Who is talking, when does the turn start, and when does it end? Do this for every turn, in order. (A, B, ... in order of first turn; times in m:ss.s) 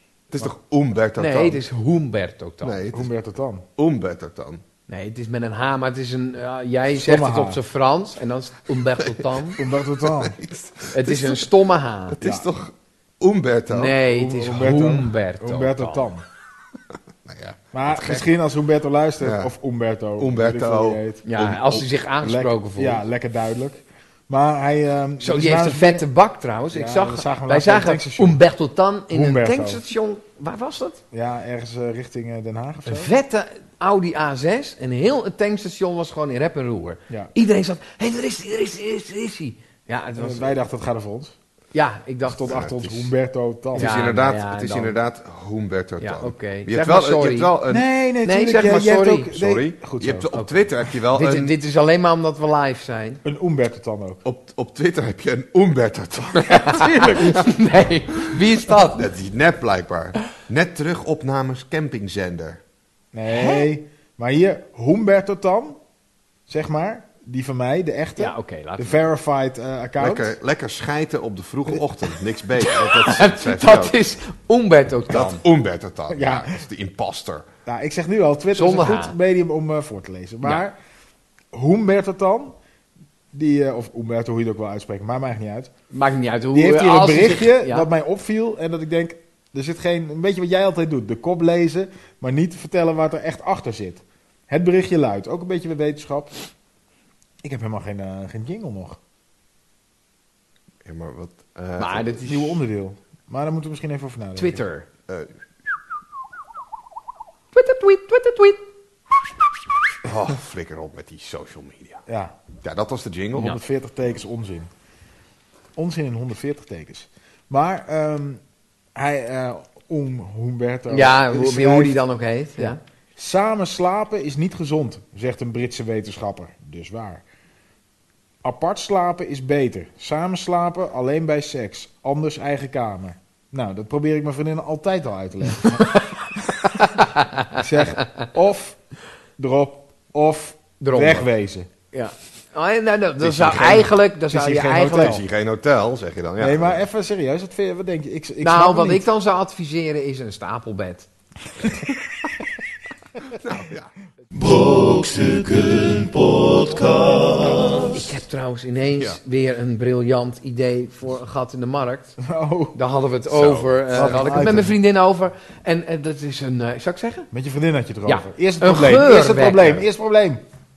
0:00.3-0:01.6 A
0:01.2-0:02.8 B
0:02.6-0:03.1 A
0:02.9-0:03.6 C
0:03.8-0:04.6 A
0:04.9-0:09.6 B
0:06.9-0:07.6 C
0:09.6-0:10.4 C
0:10.1-0:11.5 A
0:10.9-0:12.2 B
0:12.1-0:14.0 A
0:12.2-0:12.5 C
0:13.7-0:16.1 B
0:14.0-0:16.2 C
0:17.2-0:18.3 A
0:17.7-0:21.2 C
0:19.2-0:19.5 A
0:20.2-0:21.9 A
0:21.2-0:23.0 B
0:22.2-0:26.1 C
0:25.2-0:31.0 B
0:26.7-0:28.4 C
0:29.1-0:29.8 C
0:31.1-0:33.1 C
0:32.9-0:40.6 B
0:40.2-0:41.4 C
0:41.7-0:42.6 B
0:42.3-0:44.1 C
0:42.5-0:43.1 A
0:43.7-0:47.8 A
0:43.8-0:45.0 B
0:46.0-0:47.5 B
0:47.7-0:50.3 C
0:48.2-0:49.3 B
0:49.3-0:51.5 A
0:50.3-0:53.2 B
0:53.2-0:54.2 C
0:54.2-0:57.5 A
0:56.4-0:59.1 B
0:56.7-0:57.3 C
0:58.9-1:02.6 A
1:03.1-1:05.8 C
1:03.3-1:03.6 B
1:06.5-1:10.3 C
1:08.2-1:09.0 B
1:10.0-1:14.0 A
1:12.6-1:15.4 B
1:15.1-1:17.5 A
1:16.1-1:16.6 C
1:17.7-1:20.8 C
1:18.5-1:19.2 B
1:21.5-1:22.6 C
1:23.3-1:25.7 C
1:25.9-1:27.9 B
1:26.5-1:36.4 C
1:37.4-1:39.0 C
1:40.8-1:42.1 A
1:41.8-1:42.5 B
1:42.2-1:44.6 C
1:44.4-1:44.9 B
1:47.5-1:48.6 B
1:50.0-1:52.0 A
1:52.1-1:52.3 C
1:52.6-1:53.6 A
1:53.4-1:54.7 C
1:55.8-1:58.4 C
1:59.0-2:02.0 C
2:00.9-2:02.8 B
2:02.6-2:07.2 C
2:08.4-2:18.8 C
2:17.0-2:17.4 B
2:19.4-2:21.7 C
2:20.8-2:21.3 B
2:21.9-2:25.2 B
2:23.2-2:23.9 A
2:24.3-2:25.2 C
2:25.0-2:26.8 A
2:26.4-2:29.1 C
2:28.4-2:31.1 B
2:33.3-2:33.9 A
2:34.3-2:38.0 D
2:37.9-2:42.2 B
2:42.2-2:42.8 C
2:42.8-2:47.3 B
2:43.3-2:44.5 A
2:43.9-2:44.8 C
2:47.3-2:50.4 C
2:48.1-2:49.8 B